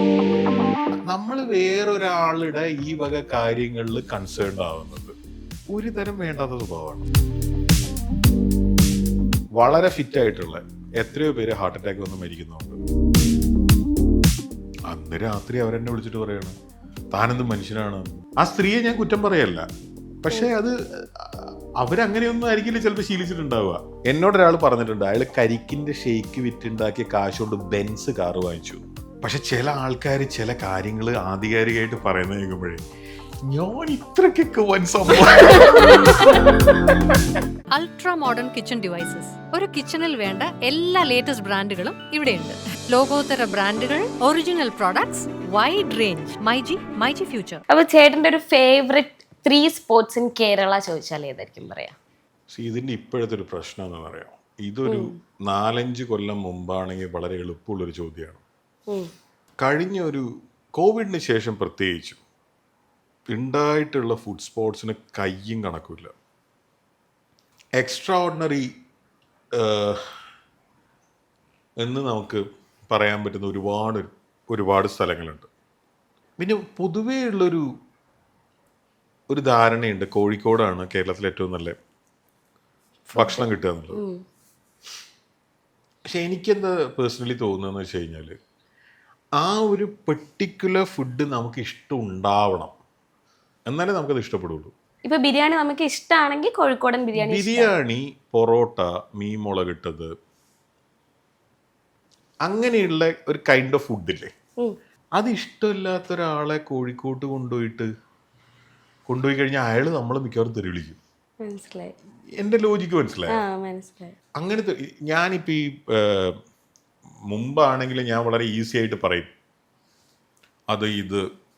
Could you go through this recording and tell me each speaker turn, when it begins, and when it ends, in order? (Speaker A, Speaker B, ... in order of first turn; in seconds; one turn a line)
Speaker A: 1.1-5.2
Speaker A: 5.7-7.1
Speaker A: 9.6-12.8
Speaker A: 14.9-16.6
Speaker A: 17.1-19.7
Speaker A: 20.2-32.8
Speaker A: 33.5-36.4
Speaker B: 35.4-36.4
Speaker C: 37.7-47.6
Speaker B: 47.7-52.0
Speaker A: 52.5-58.4
Speaker B: 54.9-55.2
Speaker A: 59.6-62.2
Speaker A: 63.3-66.1
Speaker A: 67.8-68.7
Speaker A: 69.6-70.1
Speaker A: 71.8-75.5
Speaker A: 76.4-77.7
Speaker A: 79.3-81.8
Speaker B: 83.1-84.2
Speaker A: 83.2-84.0
Speaker A: 86.1-88.4
Speaker A: 89.4-92.8
Speaker A: 93.7-94.7
Speaker B: 95.0-97.7
Speaker A: 97.2-100.1
Speaker A: 102.5-104.3
Speaker A: 105.2-107.9
Speaker A: 109.1-111.0
Speaker B: 111.4-112.0
Speaker A: 112.4-113.4
Speaker B: 113.3-114.2
Speaker A: 114.4-116.4
Speaker A: 117.3-119.3
Speaker A: 120.7-121.2